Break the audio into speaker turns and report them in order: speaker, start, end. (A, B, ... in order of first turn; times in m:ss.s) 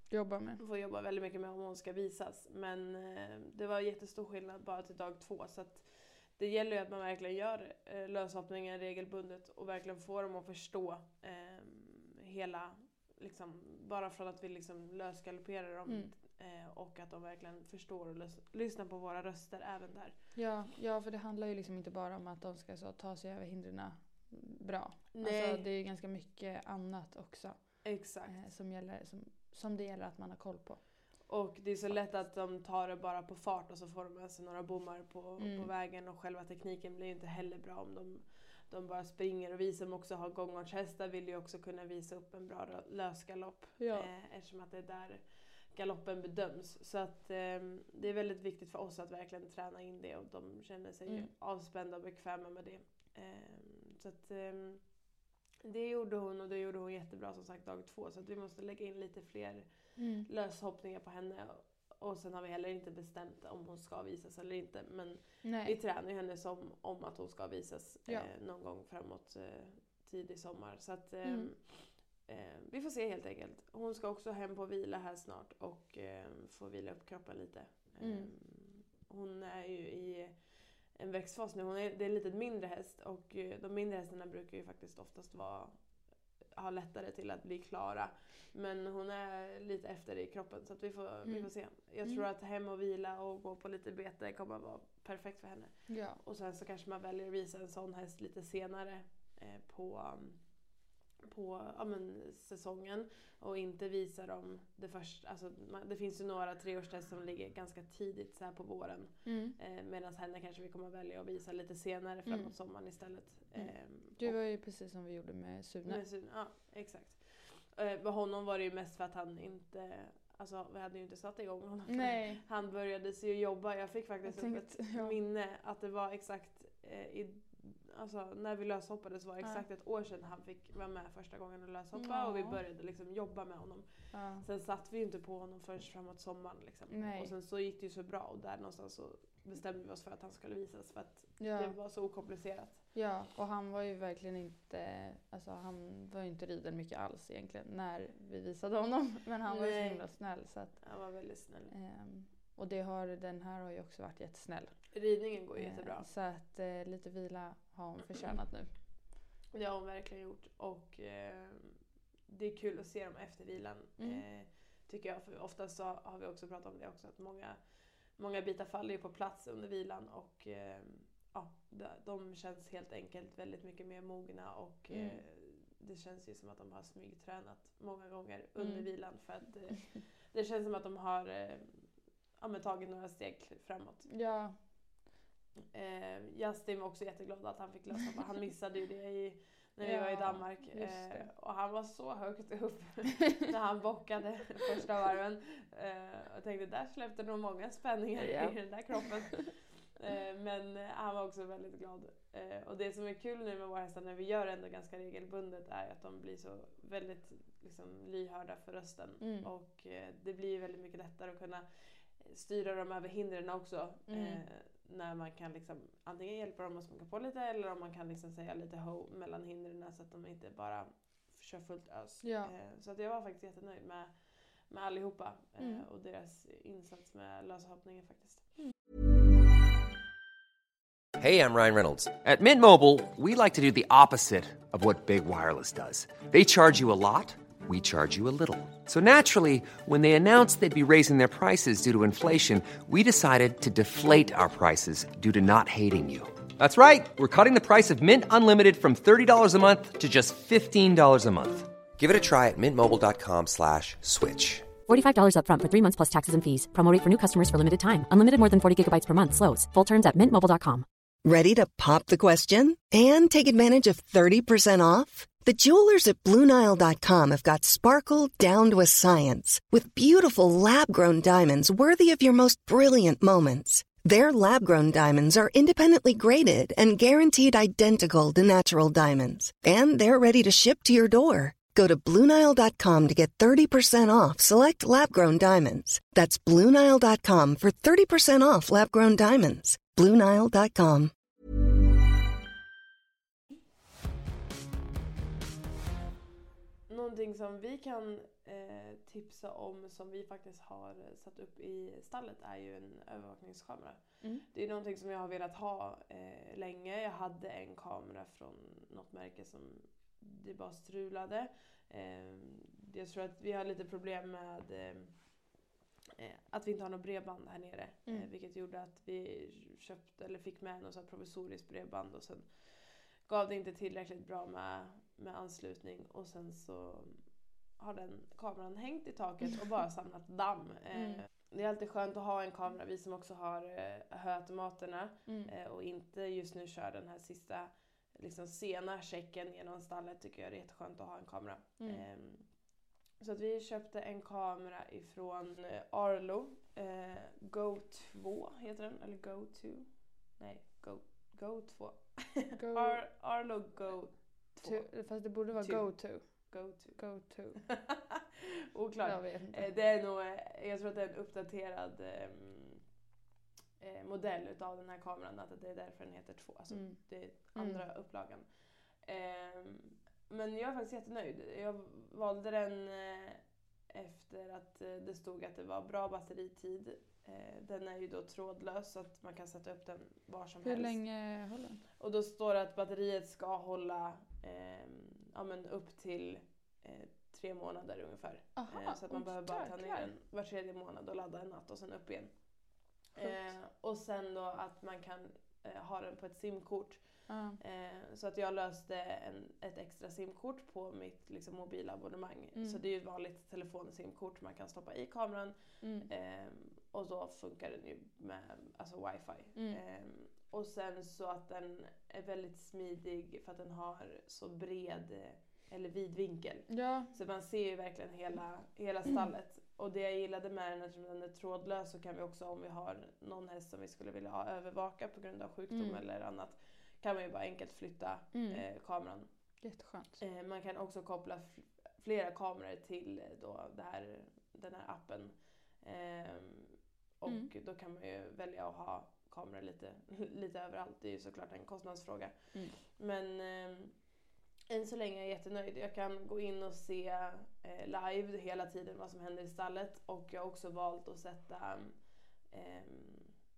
0:00.1-0:00.6 A
0:00.6-0:20.2 B
0:15.9-0:16.1 A
0:20.4-0:31.0 A
0:25.1-0:25.6 B
0:27.8-0:28.4 B
0:31.2-0:54.8 B
0:31.9-0:32.2 A
0:35.4-0:35.7 A
0:43.8-0:44.1 A
0:55.6-1:25.8 B
1:00.0-1:00.3 A
1:05.4-1:05.8 A
1:11.2-1:11.5 A
1:18.0-1:18.3 A
1:26.5-1:40.4 B
1:35.9-1:36.2 A
1:41.3-1:54.4 B
1:49.2-1:49.6 A
1:52.3-1:52.5 A
1:53.5-1:56.0 A
1:55.8-2:22.8 B
2:01.9-2:02.4 A
2:04.2-2:05.2 A
2:11.9-2:12.6 A
2:14.1-2:14.4 A
2:16.9-2:17.3 A
2:21.4-2:21.8 A
2:22.9-2:30.8 A
2:29.4-2:30.0 B
2:30.8-2:31.7 B
2:31.7-2:34.9 A
2:34.9-2:36.0 B
2:35.5-2:38.7 A
2:39.5-2:41.8 B
2:42.3-2:47.6 B
2:48.1-3:01.8 B
2:54.9-2:55.2 A
2:58.6-2:58.9 A
3:02.4-3:04.1 B
3:04.1-3:04.6 A
3:05.7-3:48.4 B
3:09.8-3:11.3 A
3:18.2-3:19.4 A
3:29.2-3:29.5 A
3:34.1-3:34.4 A
3:42.2-3:42.5 A
3:45.6-3:45.8 A
3:51.2-4:14.7 C
4:14.9-4:20.9 D
4:21.2-4:51.1 E
4:56.9-5:15.2 B
5:16.2-5:22.6 B
5:23.2-5:27.2 B
5:27.8-5:42.4 B
5:30.9-5:31.2 A
5:35.3-5:35.5 A
5:43.2-5:57.0 B
5:52.5-5:53.0 A
5:54.6-5:57.6 A
5:57.6-6:02.8 B
5:59.0-5:59.7 A
6:03.8-6:08.5 B
6:06.7-6:07.8 A
6:09.0-6:21.0 B
6:20.6-6:21.8 A
6:22.0-7:09.3 B
6:28.6-6:30.1 A
6:37.3-6:37.6 A
6:45.8-6:46.1 A
6:56.7-6:57.1 A
7:05.7-7:06.0 A
7:08.3-7:08.6 A
7:09.6-7:10.2 A
7:10.2-7:24.0 B
7:24.7-7:33.4 B